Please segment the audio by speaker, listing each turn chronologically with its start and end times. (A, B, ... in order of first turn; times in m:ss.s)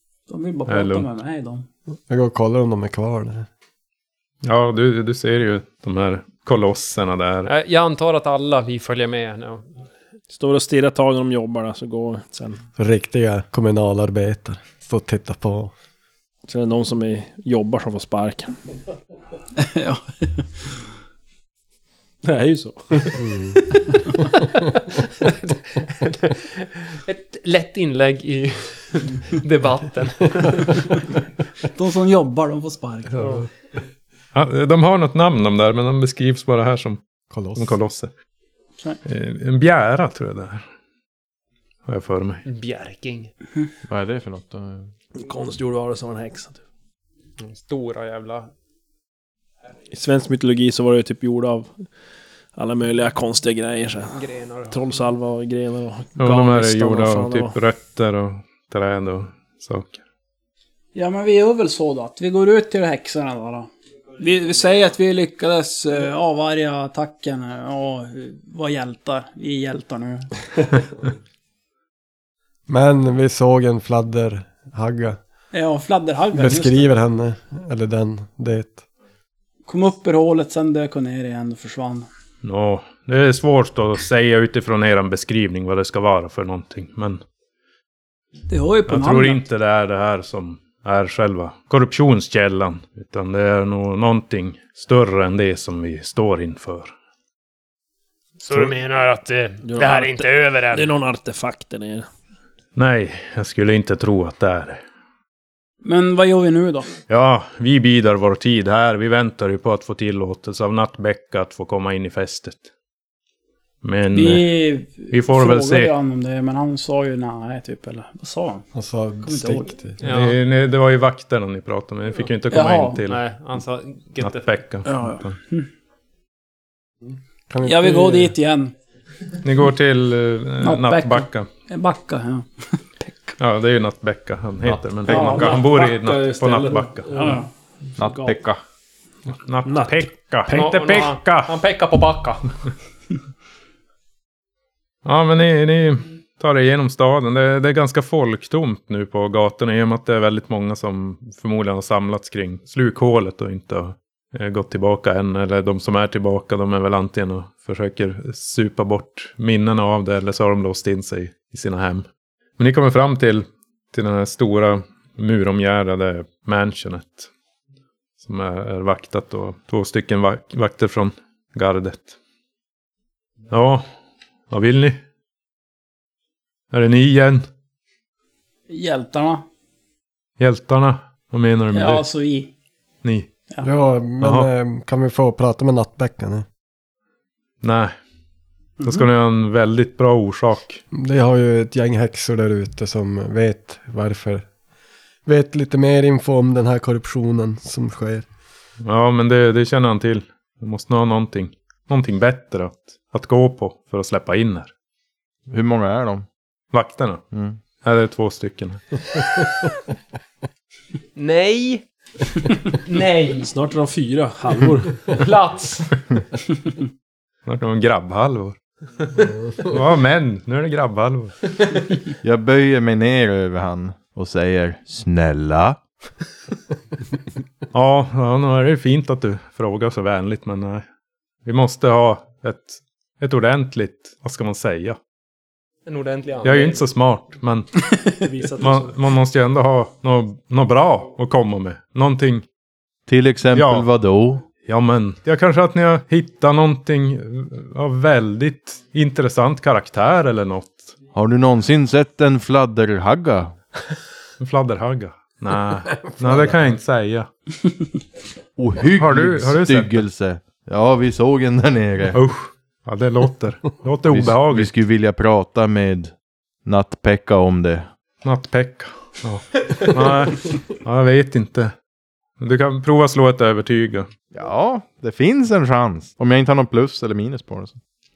0:00.3-0:01.6 A
0:00.7-0:01.0 B
0:02.1-0:03.5 C
0:04.4-0:07.5 B
0:07.5-0:09.6 D
0:10.3-0:12.6 E
0:12.8-0:15.7 C
0:16.5-0:18.5 E
0:19.6-0:20.4 A
0:22.2-0:23.2 E
0:23.2-0:23.6 C
0:25.2-0:31.0 D
0:31.7-0:33.4 A
0:33.2-0:33.4 B
0:34.3-0:37.0 B
0:37.3-0:37.8 C
0:37.5-0:38.1 B
0:39.0-0:40.7 B
0:41.8-0:42.4 B
0:42.4-0:43.3 D
0:43.8-0:44.9 F
0:45.2-0:46.6 E
0:47.4-0:48.5 D
0:49.9-0:51.8 E
0:52.5-0:57.6 E
0:54.1-0:54.8 D
0:56.2-1:00.0 B
1:00.9-1:10.4 A
1:12.7-1:15.2 C
1:15.5-1:16.9 A
1:16.3-1:18.8 C
1:19.7-1:22.1 A
1:22.4-1:27.2 B
1:28.5-1:29.4 A
1:28.9-1:36.9 B
1:38.4-1:40.9 D
1:39.6-1:42.1 E
1:42.7-1:44.8 B
1:45.8-1:46.9 A
1:47.1-1:52.7 B
1:53.8-1:54.5 B
1:54.1-1:58.6 A
1:55.1-1:55.9 B
1:58.7-2:00.0 C
1:59.2-1:59.7 A
2:00.0-2:00.4 D
2:00.0-2:03.2 B
2:02.5-2:03.0 A
2:03.1-2:04.5 D
2:04.2-2:05.4 B
2:04.8-2:05.7 A
2:07.5-2:08.3 C
2:07.6-2:08.7 A
2:09.4-2:11.5 B
2:10.6-2:13.4 A
2:13.4-2:17.1 B
2:15.0-2:15.6 F
2:15.1-2:17.4 E
2:15.1-2:15.5 A
2:17.2-2:17.5 A
2:18.0-2:18.6 F
2:18.0-2:18.4 E
2:19.3-2:21.5 B
2:19.6-2:20.7 E
2:20.5-2:22.5 D
2:25.0-2:42.0 B
2:42.6-2:47.3 B
2:48.2-2:52.2 B
2:53.5-2:53.9 B
2:54.5-2:55.0 B
2:56.7-2:57.4 B
2:58.7-2:59.4 A
3:00.4-3:02.0 B
3:01.7-3:02.5 A
3:03.0-3:03.3 B
3:03.6-3:06.4 C
3:04.2-3:04.5 B
3:07.6-3:07.9 B
3:08.8-3:10.8 B
3:10.9-3:14.5 C
3:15.2-3:18.2 C
3:18.8-3:24.7 B
3:25.5-3:26.2 F
3:26.7-3:27.2 B
3:27.3-3:27.6 F
3:27.8-3:29.5 B
3:31.2-3:31.8 D
3:32.7-3:33.5 D
3:33.4-3:35.1 E
3:35.1-3:36.0 D
3:37.4-3:41.4 B
3:42.2-3:45.8 F
3:47.7-3:50.8 B
3:51.4-3:55.0 B
3:55.8-3:56.8 D
3:56.4-4:02.4 B
3:58.2-3:59.0 E
4:03.1-4:04.4 F
4:03.5-4:03.9 B
4:04.6-4:10.9 B
4:11.1-4:13.6 F
4:14.4-4:17.3 B
4:18.6-4:22.2 F
4:19.0-4:20.0 B
4:22.1-4:24.7 B
4:24.1-4:26.1 F
4:26.6-4:27.9 F
4:28.2-4:31.7 B
4:32.4-4:34.1 B
4:34.3-4:37.8 F